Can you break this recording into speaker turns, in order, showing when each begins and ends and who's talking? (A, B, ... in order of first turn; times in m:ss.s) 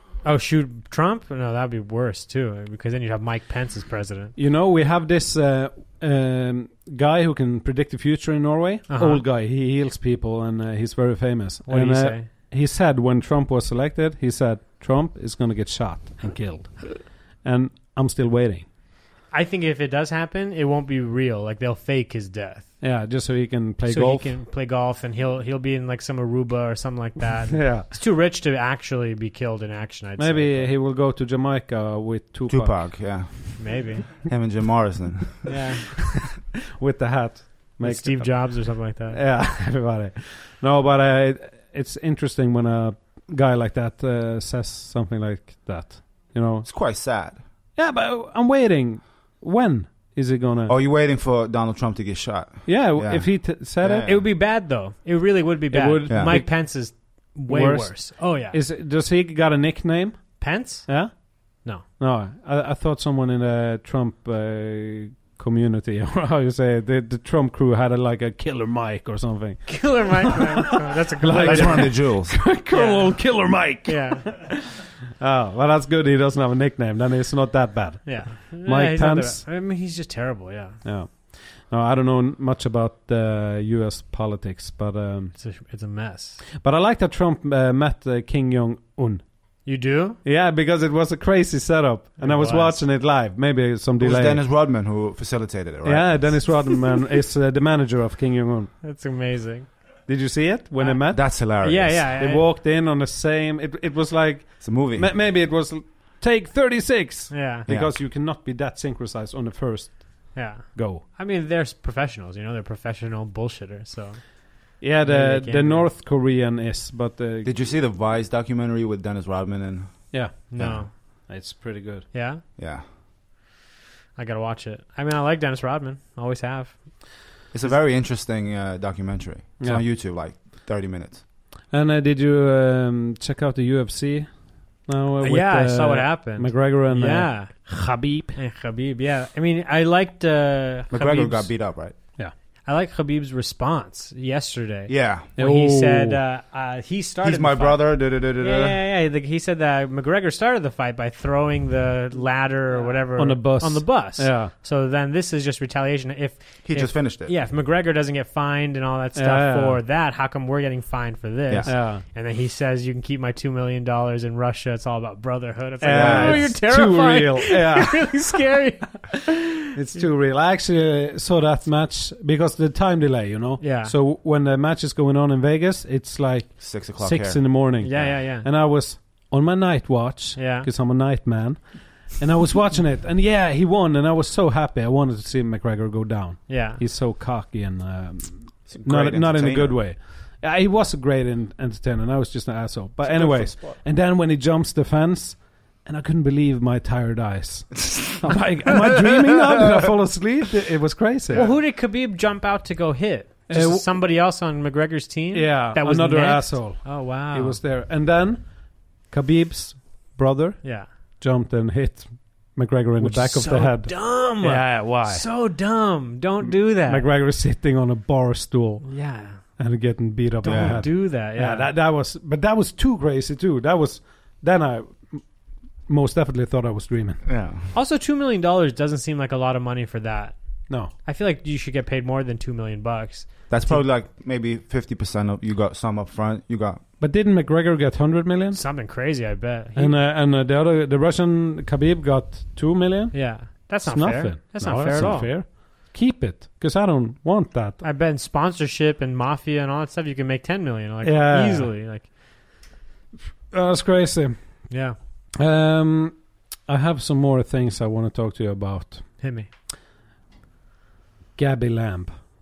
0:00.2-0:04.4 A
0:04.4-0:18.7 B
0:08.9-0:09.2 A
0:11.7-0:12.3 A
0:19.3-0:22.7 A
0:22.8-0:24.4 B
0:23.9-0:30.8 A
0:27.5-0:27.9 B
0:30.2-0:33.4 B
0:32.5-0:35.6 C
0:33.6-0:34.3 A
0:35.4-0:36.0 A
0:36.8-0:46.7 B
0:37.8-0:39.2 A
0:46.6-0:47.4 C
0:47.8-0:50.8 B
0:50.7-0:54.3 C
0:52.6-0:54.1 B
0:54.0-0:58.6 A
0:55.7-1:10.5 B
0:56.1-0:56.4 C
1:00.4-1:01.8 A
1:09.7-1:12.0 A
1:11.2-1:19.4 B
1:11.4-1:12.4 C
1:12.7-1:14.3 A
1:18.1-1:20.8 A
1:20.8-1:25.3 B
1:25.4-1:26.4 A
1:26.6-1:29.2 B
1:29.6-1:30.2 A
1:30.2-1:34.4 B
1:32.2-1:32.9 A
1:34.0-1:36.7 C
1:35.8-1:38.7 B
1:38.8-1:39.8 A
1:40.1-1:41.4 B
1:40.8-1:42.5 A
1:41.1-1:42.1 C
1:42.0-1:51.0 B
1:44.6-1:45.1 C
1:47.3-1:47.7 A
1:47.7-1:47.9 C
1:50.3-1:55.9 A
1:54.8-1:57.5 B
1:57.4-2:00.8 C
2:00.1-2:02.1 B
2:00.5-2:01.3 A
2:02.1-2:02.4 A
2:02.6-2:02.8 C
2:04.2-2:07.7 A
2:07.5-2:11.2 C
2:09.6-2:09.9 B
2:11.6-2:18.4 B
2:15.2-2:17.8 A
2:18.3-2:21.5 A
2:20.9-2:22.0 C
2:22.6-2:49.4 A
2:24.9-2:25.3 C
2:25.4-2:26.2 B
2:27.2-2:28.8 C
2:32.8-2:34.5 B
2:36.6-2:37.3 C
2:39.2-2:39.8 B
2:41.7-2:42.0 B
2:45.8-2:48.4 B
2:45.9-2:46.6 C
2:49.7-3:21.5 B
2:53.6-2:54.0 A
2:56.6-2:58.1 C
2:57.8-2:58.5 A
3:00.4-3:00.7 A
3:06.5-3:06.8 A
3:08.7-3:09.9 C
3:13.0-3:13.8 C
3:21.3-3:21.6 C
3:21.3-3:27.6 A
3:23.5-3:23.9 B
3:25.3-3:35.2 B
3:30.6-3:30.9 A
3:33.0-3:37.1 A
3:36.5-3:45.3 B
3:38.8-3:39.6 A
3:40.4-3:41.7 A
3:40.5-3:40.8 C
3:45.9-3:47.2 B
3:47.3-3:47.7 C
3:47.7-3:50.4 A
3:50.9-3:53.9 A
3:53.5-3:56.8 C
3:57.0-3:58.6 B
3:58.5-4:00.0 A
3:59.8-4:07.8 B
4:03.1-4:05.3 A
4:07.8-4:12.1 A
4:11.0-4:11.7 B
4:13.5-4:14.4 B
4:14.7-4:15.0 A
4:15.4-4:19.1 B
4:19.2-4:19.5 A
4:21.4-4:22.1 B